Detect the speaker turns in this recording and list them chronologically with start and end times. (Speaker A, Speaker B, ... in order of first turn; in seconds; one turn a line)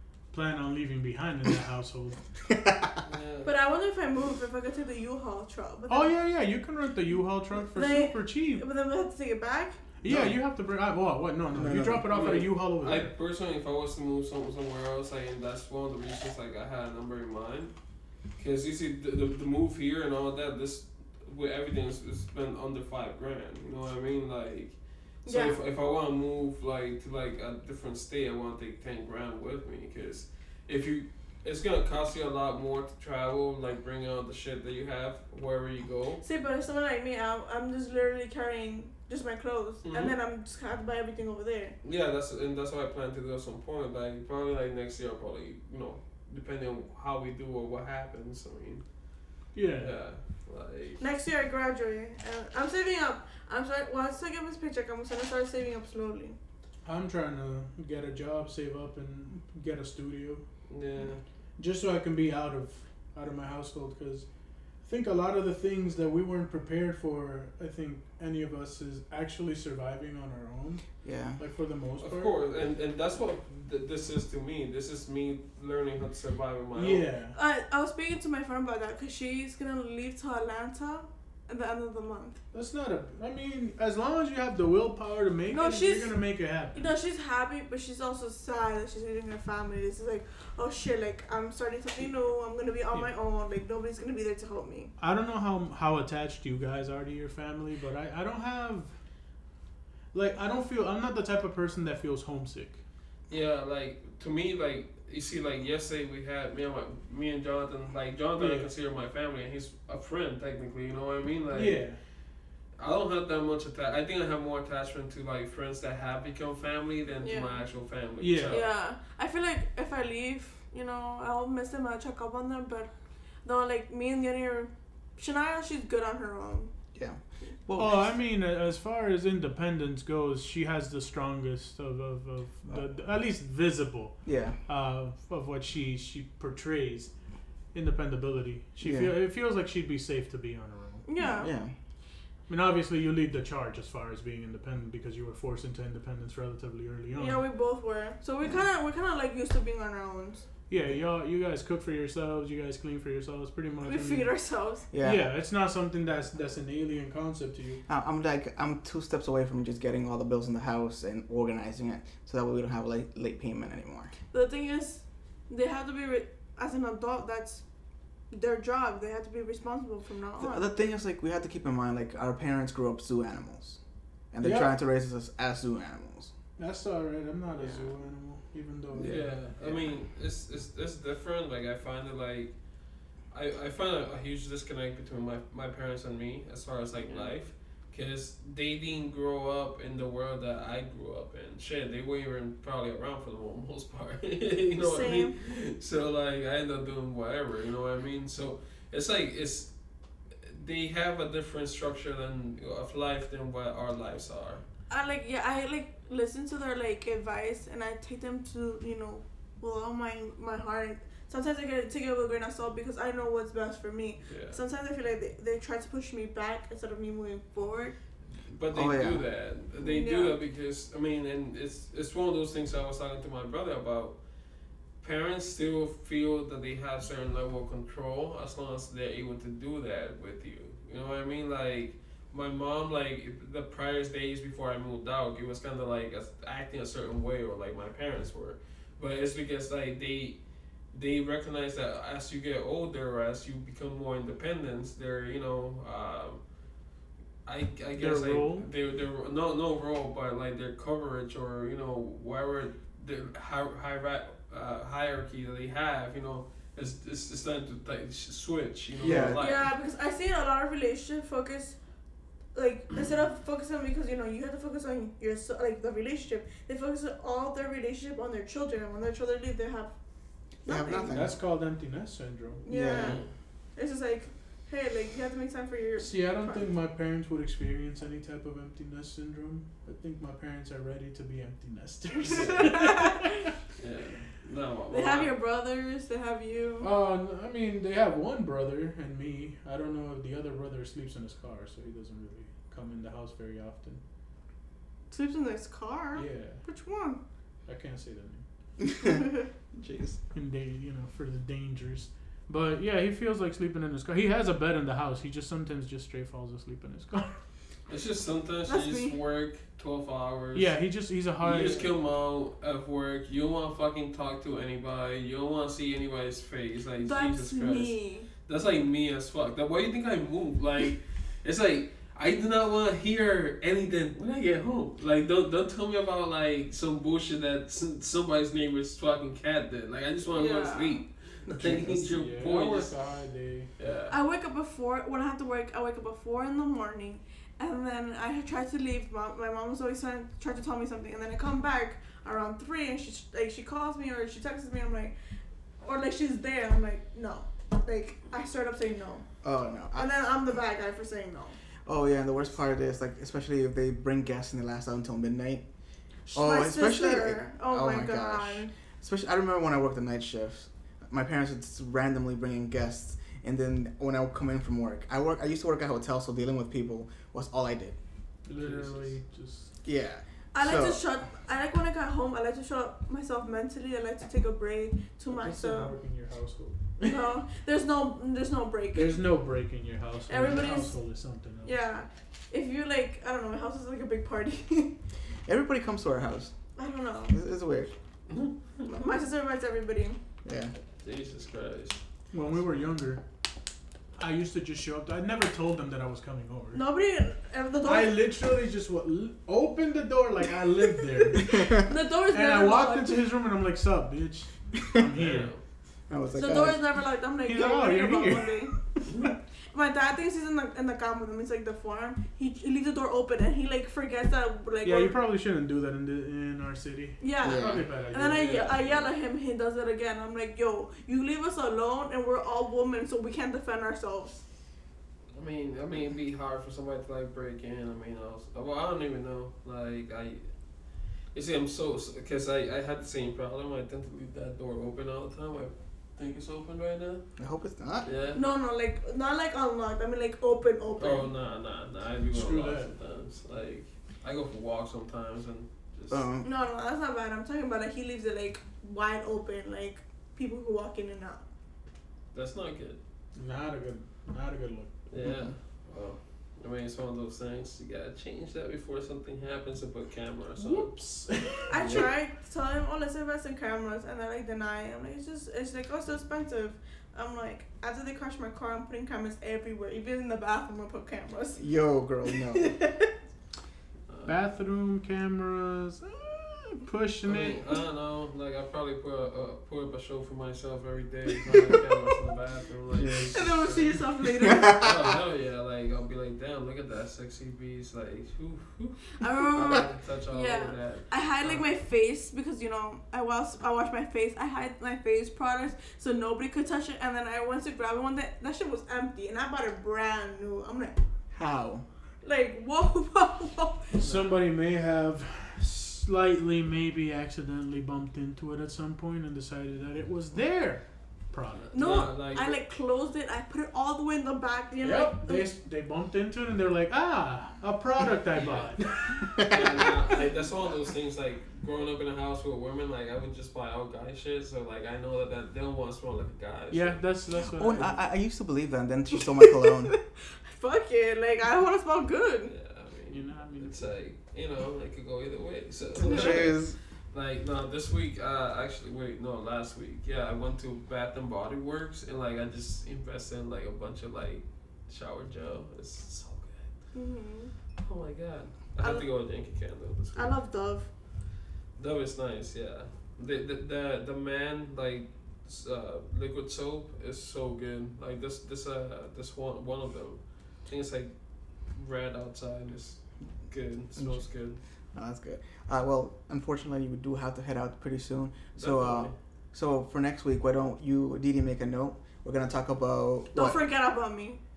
Speaker A: 0.3-2.2
Speaker B: 2.4-3.0
Speaker C: 3.0-3.5
Speaker D: 3.5-6.1
Speaker A: 5.9-8.6
Speaker D: 7.7-9.8
Speaker A: 10.0-13.1
Speaker B: 10.0-10.4
Speaker B: 11.5-12.1
Speaker C: 12.1-17.7
Speaker C: 18.4-36.2
Speaker D: 25.2-25.6
Speaker D: 36.2-41.7
Speaker C: 39.8-40.1
Speaker C: 41.8-48.8
Speaker A: 49.5-49.9
Speaker C: 49.8-51.0
Speaker D: 51.0-56.4
Speaker A: 56.8-60.4
Speaker C: 60.7-61.2
Speaker A: 61.6-64.2
Speaker A: 64.8-70.8
Speaker B: 71.0-71.4
Speaker A: 71.4-72.3
Speaker C: 72.0-77.0
Speaker A: 76.7-77.3
Speaker D: 77.3-82.4
Speaker A: 82.5-86.9
Speaker D: 85.5-86.1
Speaker D: 86.7-94.9
Speaker A: 95.0-98.9
Speaker A: 100.1-102.8
Speaker C: 103.3-111.8
Speaker A: 108.4-108.7
Speaker A: 111.5-112.0
Speaker C: 112.8-118.7
Speaker D: 117.2-117.6
Speaker A: 118.2-118.6
Speaker D: 118.5-122.9
Speaker D: 123.4-126.7
Speaker B: 126.9-128.1
Speaker A: 127.8-137.1
Speaker B: 134.2-134.6
Speaker A: 137.7-141.0
Speaker B: 138.8-139.1
Speaker D: 141.0-141.5
Speaker B: 141.2-141.7
Speaker A: 142.5-147.4
Speaker D: 147.2-150.4
Speaker A: 150.7-154.3
Speaker D: 153.8-154.8
Speaker B: 154.9-155.2
Speaker A: 155.0-157.8
Speaker B: 157.9-164.1
Speaker D: 164.3-167.6
Speaker D: 168.3-170.8
Speaker B: 170.4-173.8
Speaker B: 174.3-176.3
Speaker A: 174.4-174.7
Speaker A: 176.6-179.3
Speaker B: 177.6-177.9
Speaker B: 178.9-179.8
Speaker C: 179.0-182.5
Speaker C: 183.3-199.7
Speaker D: 187.0-187.3
Speaker D: 194.8-195.3
Speaker C: 200.4-204.6
Speaker D: 204.9-217.9
Speaker C: 214.3-214.6
Speaker C: 218.5-224.2
Speaker B: 218.7-219.2
Speaker D: 219.8-220.4
Speaker C: 225.0-240.4
Speaker C: 240.9-246.4
Speaker C: 247.4-259.7
Speaker A: 248.0-248.7
Speaker B: 259.0-259.4
Speaker D: 259.4-261.8
Speaker D: 262.5-269.9
Speaker D: 270.6-271.1
Speaker B: 270.6-271.4
Speaker A: 271.1-272.6
Speaker D: 272.6-273.2
Speaker B: 272.7-273.2
Speaker C: 272.9-273.3
Speaker D: 273.8-276.7
Speaker A: 276.0-283.5
Speaker D: 282.2-283.5
Speaker C: 282.3-282.7
Speaker C: 283.8-285.3
Speaker D: 284.9-286.9
Speaker A: 286.8-294.0
Speaker D: 295.1-297.2
Speaker A: 296.1-296.6
Speaker A: 297.6-298.4
Speaker B: 298.8-299.2
Speaker D: 299.0-299.4
Speaker B: 299.7-300.2
Speaker A: 300.3-307.4
Speaker C: 307.9-310.7
Speaker D: 308.7-309.2
Speaker A: 310.5-311.9
Speaker C: 311.4-332.9
Speaker D: 317.0-318.3
Speaker D: 330.3-331.0
Speaker A: 331.5-333.7
Speaker C: 333.8-334.1
Speaker D: 334.1-345.1
Speaker D: 345.8-349.3
Speaker B: 349.4-350.1
Speaker D: 349.9-351.6
Speaker B: 351.9-355.6
Speaker D: 356.3-358.7
Speaker B: 356.3-367.9
Speaker A: 368.4-369.7
Speaker C: 368.6-369.1
Speaker B: 369.8-371.1
Speaker D: 370.5-375.9
Speaker A: 375.3-377.1
Speaker D: 377.0-379.2
Speaker A: 378.9-381.8
Speaker D: 380.3-380.9
Speaker D: 381.6-384.9
Speaker B: 385.4-386.5
Speaker D: 386.8-387.4
Speaker B: 387.3-387.9
Speaker C: 388.3-388.9
Speaker D: 388.9-390.2
Speaker B: 390.4-390.7
Speaker C: 391.0-392.0
Speaker A: 392.3-393.2
Speaker A: 394.2-396.8
Speaker D: 396.7-398.2
Speaker A: 397.8-401.6
Speaker D: 401.4-403.2
Speaker B: 401.4-401.8
Speaker A: 402.3-405.5
Speaker C: 405.1-405.6
Speaker B: 406.1-406.8
Speaker D: 406.3-408.7
Speaker A: 407.4-409.0
Speaker C: 409.1-409.3
Speaker D: 409.7-415.1
Speaker A: 414.8-418.6
Speaker D: 417.2-424.4
Speaker B: 417.4-417.8
Speaker C: 418.3-419.1
Speaker C: 425.3-430.4
Speaker C: 431.3-437.2
Speaker B: 437.4-438.1
Speaker C: 438.0-438.4
Speaker D: 438.3-441.3
Speaker C: 441.0-446.2
Speaker A: 442.3-442.9
Speaker B: 446.1-446.5
Speaker D: 446.4-451.4
Speaker C: 452.3-453.0
Speaker A: 453.3-454.9
Speaker C: 455.1-461.0
Speaker B: 455.2-455.5
Speaker A: 460.6-462.1
Speaker D: 461.7-471.6
Speaker C: 461.7-462.1
Speaker B: 471.6-472.7
Speaker D: 472.3-473.1
Speaker C: 474.1-474.3
Speaker A: 474.2-477.6
Speaker C: 477.2-483.9
Speaker D: 481.4-482.0
Speaker B: 483.0-483.3
Speaker D: 483.2-484.9
Speaker B: 484.4-485.2
Speaker C: 484.6-491.6
Speaker D: 489.2-501.0
Speaker B: 501.3-501.9
Speaker D: 502.2-504.0
Speaker A: 503.9-511.7
Speaker C: 504.0-504.4
Speaker C: 511.7-512.6
Speaker D: 511.7-515.5
Speaker A: 514.8-519.4
Speaker C: 518.3-518.8
Speaker B: 519.3-520.0
Speaker C: 519.4-527.0
Speaker A: 526.7-528.0
Speaker B: 527.5-529.9
Speaker D: 529.4-532.5
Speaker C: 532.5-536.6
Speaker A: 533.1-533.9
Speaker B: 535.9-536.8
Speaker D: 536.1-536.4
Speaker C: 537.1-546.7
Speaker D: 546.9-547.5
Speaker C: 547.8-550.4
Speaker D: 548.8-549.1
Speaker D: 550.1-550.9
Speaker C: 551.8-561.1
Speaker C: 561.7-564.6
Speaker B: 564.0-564.2
Speaker B: 564.9-573.6
Speaker C: 568.5-569.1
Speaker D: 573.3-574.4